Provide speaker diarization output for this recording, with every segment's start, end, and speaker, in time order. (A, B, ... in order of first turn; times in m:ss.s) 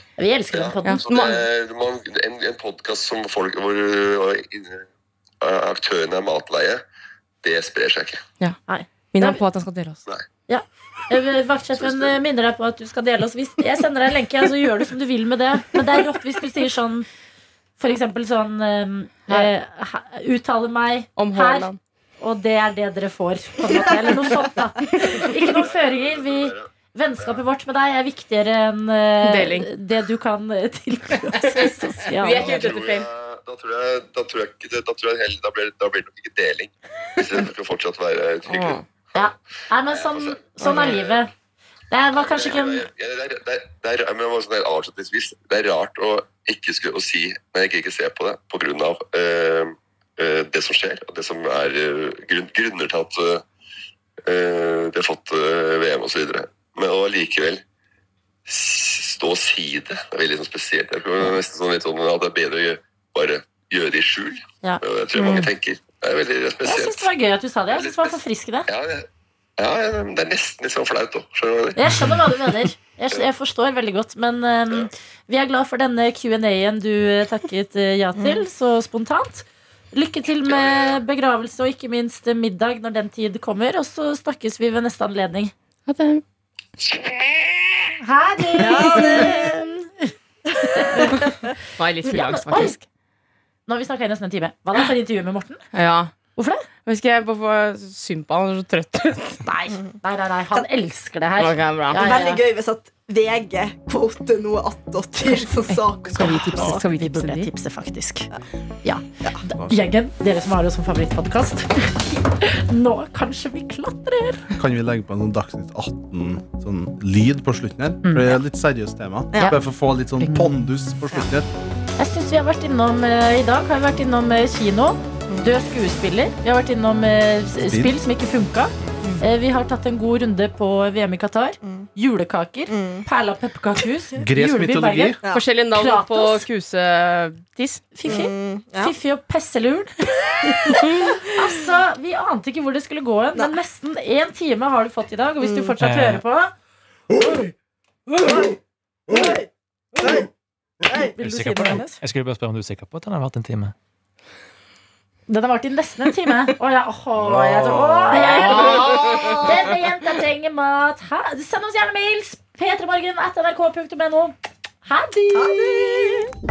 0:00.2-0:01.1 A
0:00.5-0:04.8 B
0:00.8-0:01.4 C
0:05.4-0:06.8 B
0:07.4-0:08.2 B
0:08.7-0:09.4 A
0:09.1-0:10.0 C
0:10.5-0:17.1 A
0:11.8-0:12.2 B
0:17.8-0:21.7 A
0:21.2-0:21.8 C
0:22.2-0:32.7 A
0:25.2-0:27.4 B
0:29.2-0:29.7 C
0:31.4-0:33.1 C
0:32.4-0:39.3 B
0:38.5-0:38.8 C
0:39.1-0:41.3 A
0:39.9-0:41.3 B
0:40.6-0:40.9 C
0:41.9-0:42.9 A
0:42.2-0:53.4 B
0:54.3-0:57.6 B
0:58.5-1:07.1 B
1:04.6-1:05.4 A
1:06.6-1:08.7 A
1:07.7-1:09.1 B
1:09.6-1:11.8 B
1:11.8-1:25.5 A
1:18.2-1:18.4 D
1:20.4-1:21.0 B
1:25.9-1:26.2 C
1:28.0-1:30.1 A
1:28.6-1:29.6 D
1:30.6-1:31.2 D
1:30.8-1:31.3 A
1:31.8-1:32.8 C
1:32.1-1:32.8 A
1:33.7-1:35.6 A
1:35.7-1:36.1 C
1:36.4-1:36.7 A
1:36.9-1:39.4 C
1:39.4-1:42.4 A
1:41.4-1:42.1 C
1:41.9-1:46.8 D
1:45.7-1:47.5 C
1:46.2-1:48.3 A
1:48.8-1:54.5 A
1:54.6-2:01.5 E
1:58.0-1:58.4 A
2:00.2-2:00.5 A
2:02.0-2:15.2 A
2:07.6-2:07.9 E
2:12.7-2:13.1 D
2:14.2-2:15.2 E
2:15.3-2:17.9 C
2:15.7-2:16.4 A
2:18.0-2:26.5 A
2:18.1-2:19.0 D
2:25.4-2:25.7 D
2:25.8-2:26.2 F
2:28.2-2:28.6 D
2:29.1-2:29.5 D
2:30.0-2:30.3 D
2:30.9-2:31.2 D
2:30.9-2:32.0 A
2:31.2-2:33.7 F
2:35.3-2:46.3 A
2:38.2-2:39.6 D
2:45.3-2:46.3 D